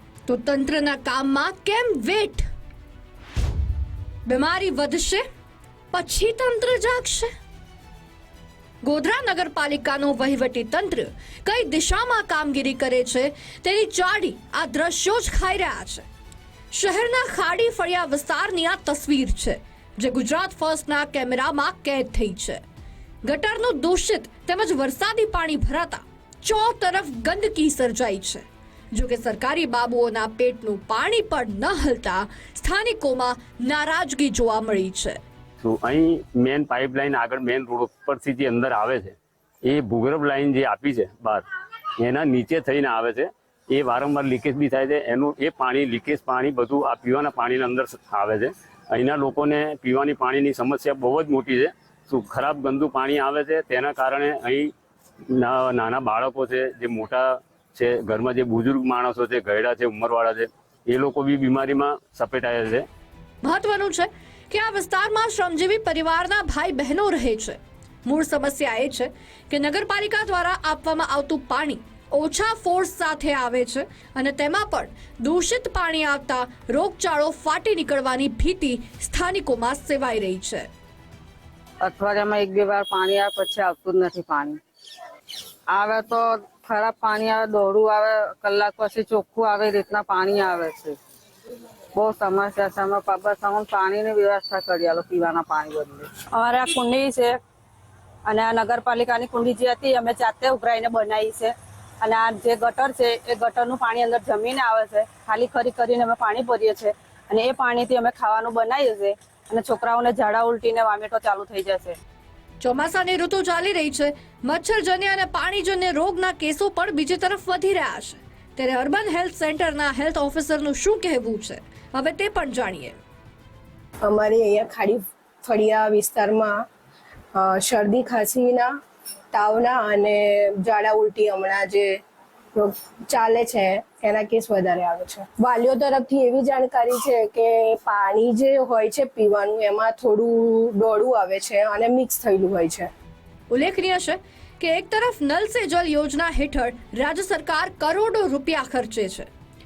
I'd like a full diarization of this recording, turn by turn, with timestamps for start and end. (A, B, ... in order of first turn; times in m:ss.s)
0:00.3-0:02.5 A
0:04.3-0:05.2 A
0:05.9-0:07.3 A
0:08.8-0:16.1 A
0:16.7-0:22.6 A
0:23.2-0:35.2 A
0:35.6-0:41.4 B
0:42.0-0:54.7 B
0:55.3-1:02.9 B
1:03.4-1:20.7 A
1:21.8-1:24.6 C
1:23.8-1:24.6 D
1:25.7-1:26.1 D
1:25.8-1:31.0 C
1:32.0-1:36.1 C
1:36.2-1:37.4 D
1:38.3-1:52.0 D
1:52.6-2:03.0 A
2:04.0-2:06.6 E
2:07.4-2:08.7 E
2:09.3-2:12.0 E
2:12.6-2:22.9 E
2:23.5-2:29.3 A